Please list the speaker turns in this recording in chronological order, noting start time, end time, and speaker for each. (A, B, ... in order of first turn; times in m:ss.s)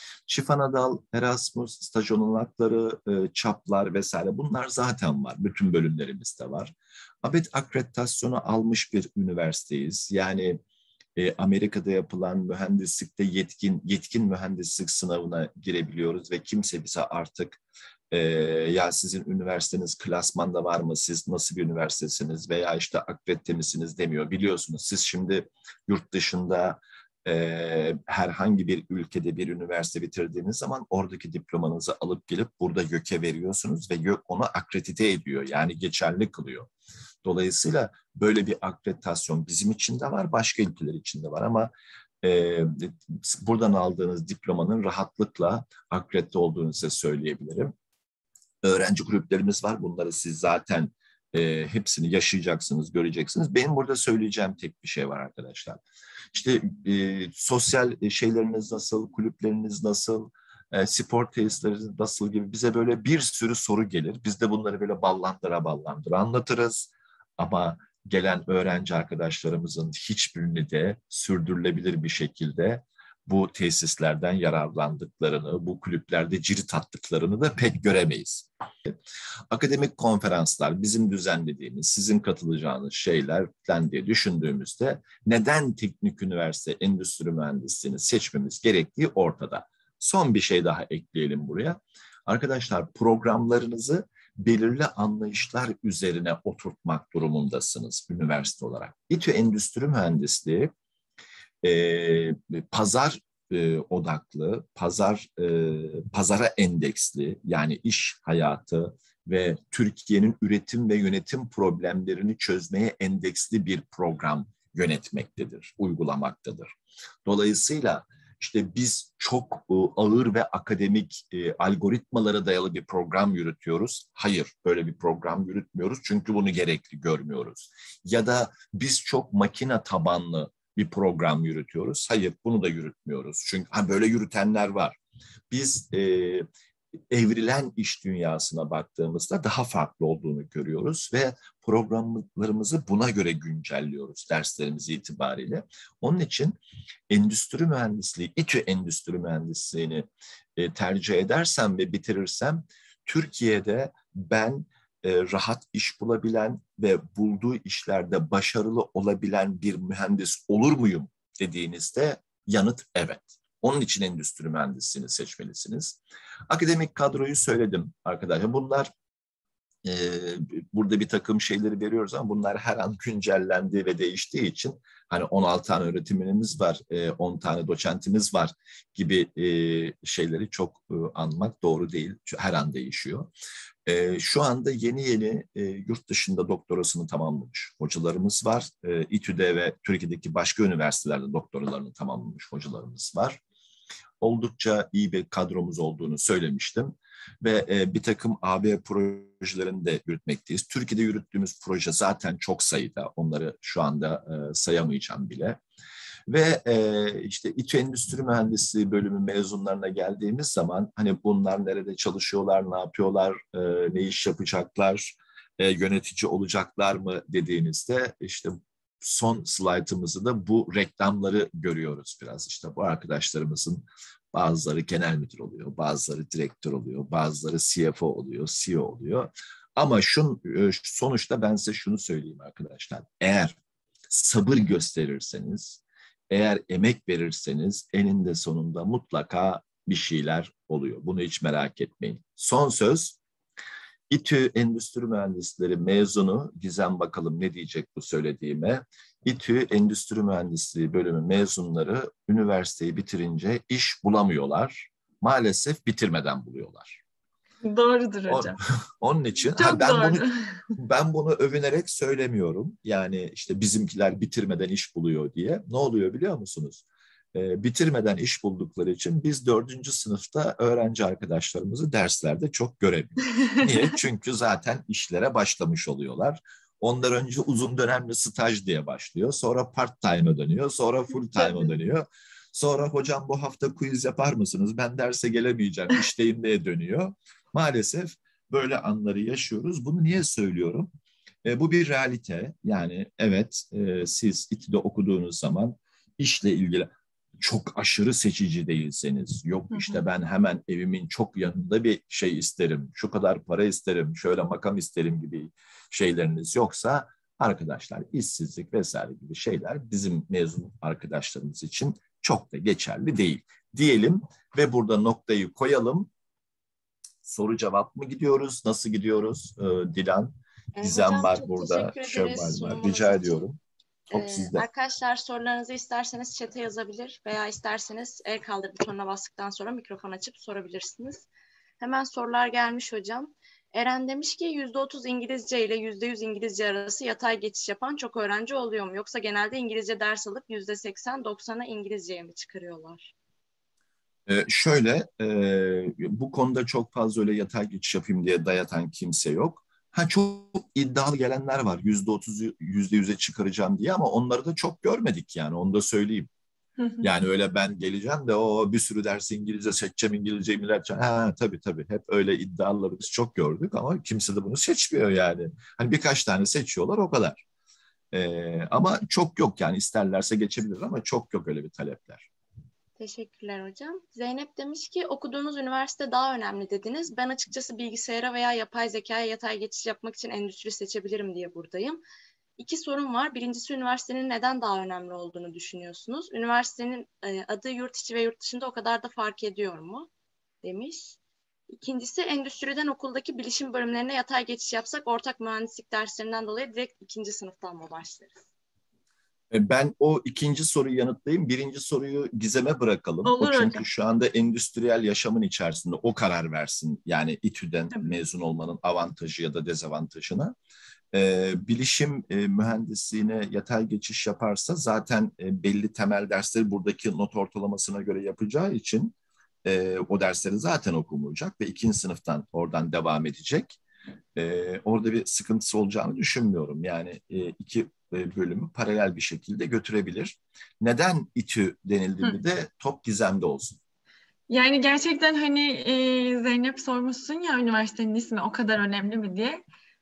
0:00.3-0:10.6 A
0:11.2-0:17.6 A
0:18.1-0:36.7 A
0:37.2-0:47.7 A
0:48.6-0:55.8 A
0:56.3-1:18.9 A
1:19.5-1:40.7 A
1:41.6-1:56.7 A
1:57.2-2:15.0 A
2:15.5-2:16.5 A
2:17.1-2:26.6 A
2:27.1-2:46.0 A
2:46.5-2:48.9 A
2:49.8-3:03.3 A
3:03.8-3:13.4 A
3:14.2-3:25.6 A
3:26.3-3:53.6 A
3:54.1-4:03.2 A
4:04.1-4:17.0 A
4:17.6-4:18.6 B
4:18.3-4:50.9 A
4:19.6-4:20.6 B
4:51.4-4:56.9 A
4:57.4-5:16.1 A
4:59.7-5:00.0 B
5:17.2-5:23.6 A
5:20.8-5:23.4 C
5:24.1-5:24.6 A
5:24.1-5:31.2 C
5:31.8-5:43.1 C
5:44.3-5:56.3 A
5:57.0-6:07.4 A
6:08.1-6:12.3 A
6:13.0-6:22.0 C
6:22.6-6:30.1 C
6:30.6-6:31.2 C
6:31.7-6:38.4 C
6:39.5-6:50.5 A
6:43.2-6:43.8 B
6:51.1-6:59.1 A
6:59.6-7:03.8 A
7:04.4-7:13.8 A
7:14.5-7:19.6 B